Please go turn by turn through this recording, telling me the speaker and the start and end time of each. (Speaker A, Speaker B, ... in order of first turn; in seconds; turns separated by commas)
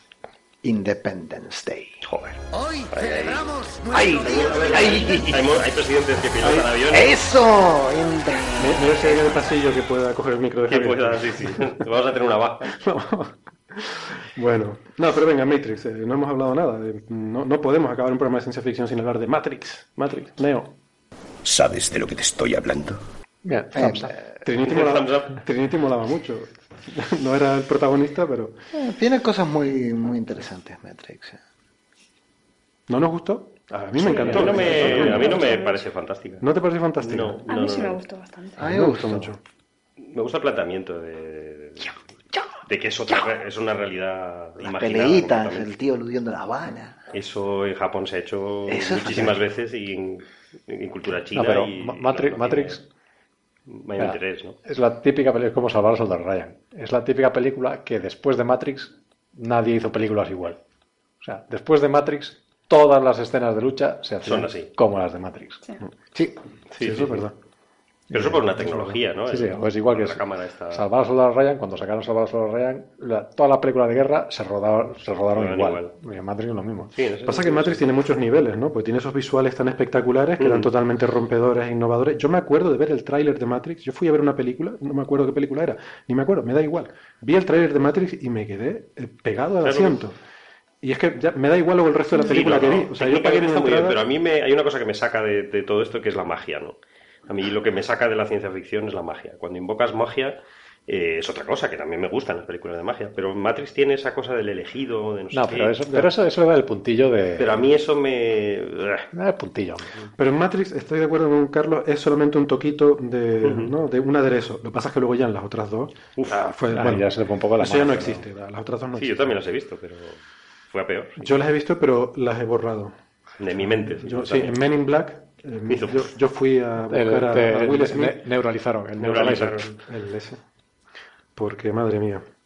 Speaker A: 0.6-2.0, Speaker B: 2.0-2.4, Speaker C: 2.5-4.6, Speaker B: 2.9-3.5, Speaker A: 3.9-5.6, Speaker B: 4.2-7.2, Speaker D: 4.5-5.2, Speaker D: 6.4-6.8, Speaker A: 6.8-9.4, Speaker D: 8.6-11.7, Speaker B: 10.7-12.7, Speaker D: 12.7-20.7, Speaker C: 21.4-23.0, Speaker E: 23.4-24.1, Speaker A: 23.7-24.1, Speaker D: 24.4-28.6, Speaker B: 24.6-25.4, Speaker A: 28.7-31.4, Speaker D: 32.9-35.6, Speaker B: 34.0-36.4, Speaker F: 34.0-35.8, Speaker D: 36.4-37.4, Speaker B: 37.0-38.0, Speaker F: 37.5-38.7, Speaker A: 38.6-39.3, Speaker D: 38.6-39.4, Speaker B: 40.0-42.0, Speaker B: 42.6-45.7, Speaker A: 44.6-47.0, Speaker B: 47.1-52.8, Speaker A: 48.7-49.4, Speaker E: 51.3-52.8, Speaker B: 53.7-54.6, Speaker E: 54.0-60.6, Speaker E: 61.2-65.6, Speaker B: 64.2-64.7, Speaker B: 66.7-67.2, Speaker D: 66.8-67.3, Speaker B: 68.1-70.8, Speaker D: 68.1-69.0, Speaker E: 69.3-76.9, Speaker B: 75.3-75.9, Speaker B: 76.9-77.8, Speaker D: 77.2-90.2, Speaker B: 80.4-80.7, Speaker B: 89.6-90.0, Speaker D: 90.8-94.0, Speaker B: 92.2-96.8, Speaker B: 97.3-105.8, Speaker E: 105.3-107.6, Speaker B: 107.4-109.1, Speaker E: 109.1-109.9, Speaker D: 110.2-119.4, Speaker B: 113.4-113.7, Speaker B: 116.2-116.4, Speaker E: 116.7-118.2, Speaker B: 118.9-121.2, Speaker D: 121.2-122.9, Speaker B: 123.4-124.6, Speaker D: 123.9-128.2, Speaker B: 125.7-126.1, Speaker E: 126.9-129.7, Speaker B: 129.0-129.7, Speaker D: 129.2-130.4, Speaker D: 131.3-132.2